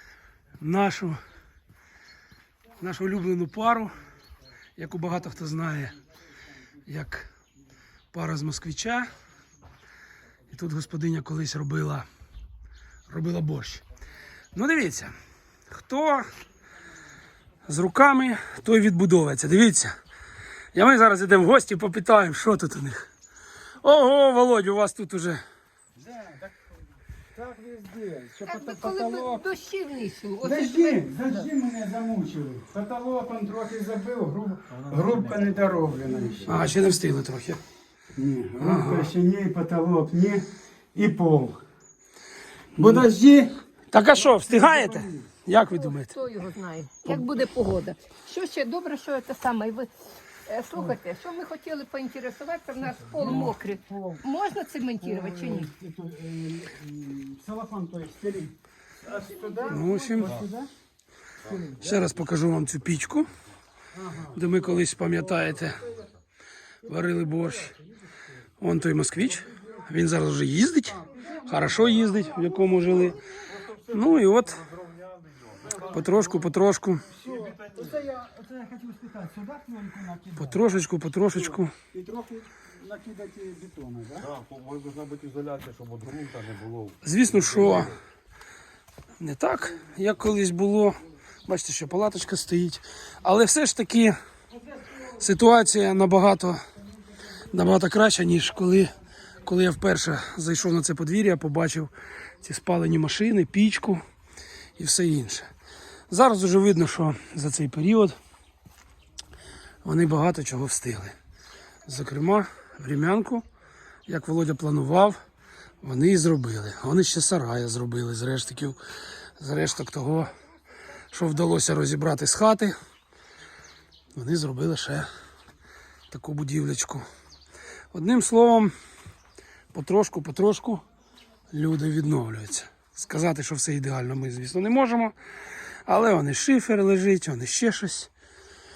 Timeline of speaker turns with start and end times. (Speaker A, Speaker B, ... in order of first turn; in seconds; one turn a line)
Speaker A: 0.6-1.2
Speaker A: 2.8-3.9
Speaker A: 4.8-6.0
Speaker A: 6.8-7.3
Speaker A: 8.1-9.1
Speaker A: 10.5-12.1
Speaker A: 13.1-13.8
Speaker A: 14.5-15.1
Speaker A: 15.7-16.3
Speaker A: 17.7-19.9
Speaker A: 20.7-23.1
Speaker A: 23.8-25.4
Speaker B: 26.0-26.5
Speaker B: 27.3-29.4
Speaker C: 28.4-31.0
Speaker B: 30.4-36.6
Speaker D: 34.8-35.5
Speaker A: 36.5-37.6
Speaker B: 38.1-41.6
Speaker A: 38.6-39.1
Speaker B: 42.8-43.6
Speaker A: 42.8-43.1
Speaker A: 43.9-46.2
Speaker B: 44.3-45.2
Speaker C: 45.7-49.9
Speaker C: 50.5-55.7
Speaker B: 53.0-54.2
Speaker B: 55.0-60.7
Speaker C: 59.0-59.8
Speaker A: 59.7-60.4
Speaker B: 61.5-61.8
Speaker A: 61.8-63.3
Speaker B: 64.0-64.4
Speaker A: 64.3-65.8
Speaker A: 66.8-67.7
Speaker A: 68.6-73.2
Speaker B: 71.1-71.5
Speaker D: 73.5-76.2
Speaker A: 73.9-74.6
Speaker B: 75.7-76.0
Speaker A: 75.9-77.1
Speaker D: 77.1-77.9
Speaker B: 77.1-80.6
Speaker A: 80.4-81.7
Speaker B: 81.9-84.3
Speaker D: 84.2-87.0
Speaker A: 87.0-87.9
Speaker A: 89.2-94.2
Speaker A: 95.1-96.6
Speaker A: 97.5-98.9
Speaker A: 99.4-104.0
Speaker A: 104.8-105.5
Speaker A: 106.1-108.2
Speaker A: 109.8-111.1
Speaker A: 111.8-113.4
Speaker A: 114.1-115.2
Speaker A: 115.8-118.8
Speaker A: 119.4-120.3
Speaker A: 121.1-122.7
Speaker A: 124.1-125.1
Speaker A: 126.1-127.0
Speaker A: 127.9-128.7
Speaker A: 129.7-130.8
Speaker A: 131.5-135.1
Speaker A: 135.8-138.1